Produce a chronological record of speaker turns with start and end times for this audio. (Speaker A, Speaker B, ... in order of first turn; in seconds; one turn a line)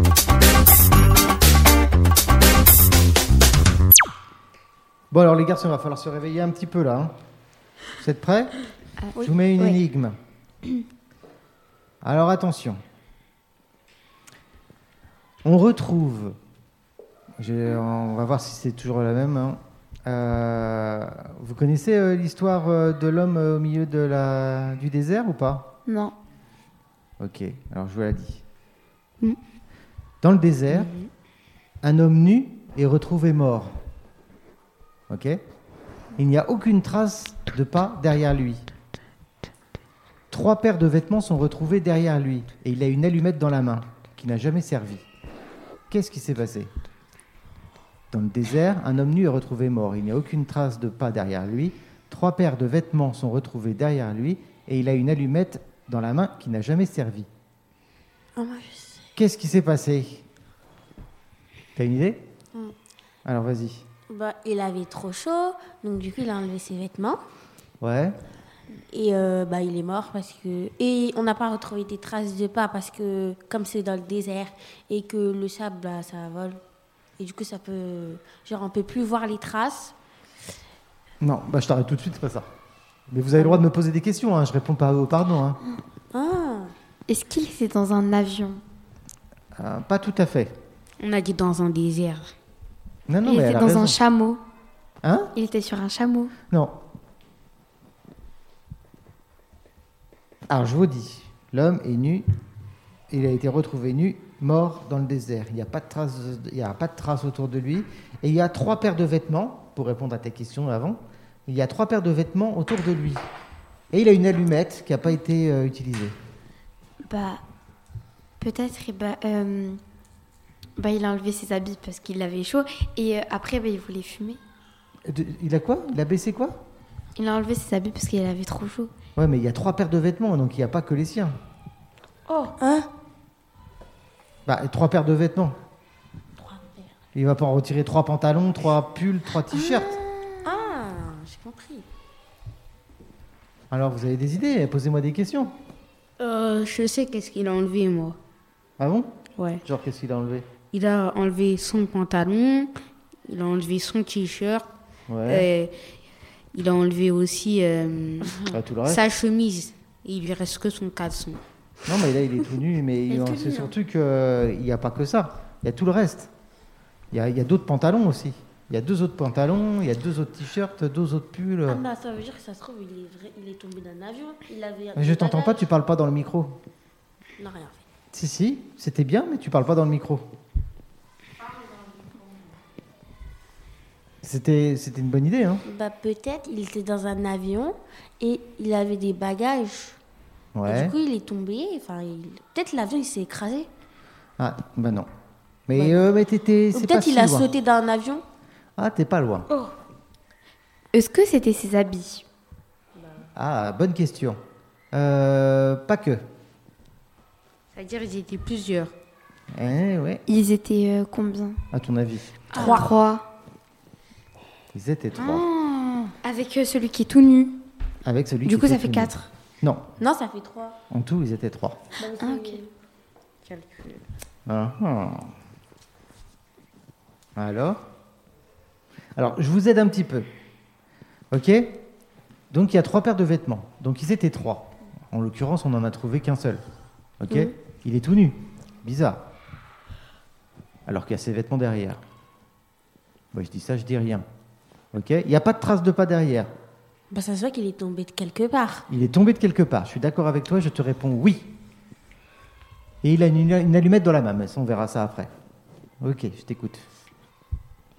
Speaker A: 5.1-7.2
Speaker A: 8.0-8.6
Speaker B: 9.0-9.8
Speaker A: 9.2-10.2
Speaker A: 12.0-12.8
Speaker A: 15.4-16.4
Speaker A: 17.4-25.7
Speaker B: 25.9-26.1
Speaker A: 27.2-28.4
Speaker A: 30.2-30.9
Speaker C: 30.7-31.1
Speaker A: 31.8-33.8
Speaker A: 35.1-35.4
Speaker A: 36.2-38.7
Speaker A: 40.3-45.0
Speaker A: 45.9-46.7
Speaker A: 48.1-57.3
Speaker D: 58.4-59.0
Speaker A: 59.2-60.2
Speaker A: 61.8-62.3
Speaker A: 63.2-63.9
Speaker D: 64.1-67.2
Speaker A: 67.8-68.2
Speaker D: 68.9-76.6
Speaker D: 77.2-79.9
Speaker A: 81.2-82.5
Speaker A: 83.1-85.6
Speaker D: 86.1-86.7
Speaker B: 87.1-88.6
Speaker A: 89.5-90.6
Speaker C: 91.0-92.3
Speaker A: 93.1-94.0
Speaker B: 93.2-94.4
Speaker A: 95.0-95.3
Speaker B: 95.3-96.3
Speaker A: 96.5-96.8
Speaker A: 100.5-102.3
Speaker A: 103.1-113.2
Speaker A: 113.9-116.2
Speaker B: 117.0-117.4
Speaker B: 118.4-119.8
Speaker B: 120.8-124.4
Speaker A: 125.1-126.6
Speaker B: 127.2-128.9
Speaker A: 129.2-131.4
Speaker C: 132.3-132.6
Speaker D: 132.6-132.9
Speaker A: 134.5-135.6
Speaker D: 136.4-136.9
Speaker A: 137.2-140.0
Speaker B: 139.6-140.4
Speaker D: 140.4-141.9
Speaker A: 143.7-145.6
Speaker C: 146.2-148.2
Speaker A: 148.8-149.1
Speaker A: 149.6-150.5
Speaker C: 150.7-152.7
Speaker C: 153.3-154.7
Speaker A: 155.1-155.5
Speaker C: 155.3-155.9
Speaker C: 156.5-161.4
Speaker A: 158.5-159.1
Speaker A: 161.8-166.3
Speaker D: 163.1-163.7
Speaker A: 167.1-171.8
Speaker D: 171.7-175.7
Speaker A: 174.9-176.6
Speaker D: 177.4-177.8
Speaker A: 178.1-180.3
Speaker A: 184.2-185.6
Speaker D: 185.7-190.0
Speaker A: 190.6-190.9
Speaker D: 190.7-193.7
Speaker A: 194.4-195.1
Speaker A: 195.7-197.5
Speaker D: 195.8-196.0
Speaker D: 196.7-198.2
Speaker A: 198.8-199.5
Speaker B: 200.9-202.2
Speaker A: 203.3-204.4
Speaker A: 204.9-206.2
Speaker C: 207.7-208.9
Speaker A: 209.5-210.2
Speaker B: 210.3-211.6
Speaker A: 211.7-212.4
Speaker C: 212.5-212.9
Speaker D: 212.5-212.9
Speaker B: 212.5-213.3
Speaker A: 214.7-215.5
Speaker B: 215.3-217.6
Speaker A: 218.0-219.8
Speaker B: 218.5-219.3
Speaker D: 220.0-220.8
Speaker A: 220.9-221.8
Speaker D: 222.1-222.6
Speaker B: 222.2-222.6
Speaker C: 223.4-224.0
Speaker A: 224.5-225.3
Speaker A: 227.4-227.8
Speaker A: 229.2-230.3
Speaker A: 231.3-231.8
Speaker A: 232.5-236.6
Speaker A: 237.2-239.3
Speaker A: 240.9-242.0
Speaker A: 243.3-244.2
Speaker A: 244.9-246.5
Speaker D: 247.1-248.9
Speaker A: 248.9-251.5
Speaker A: 253.0-255.3
Speaker A: 256.0-256.8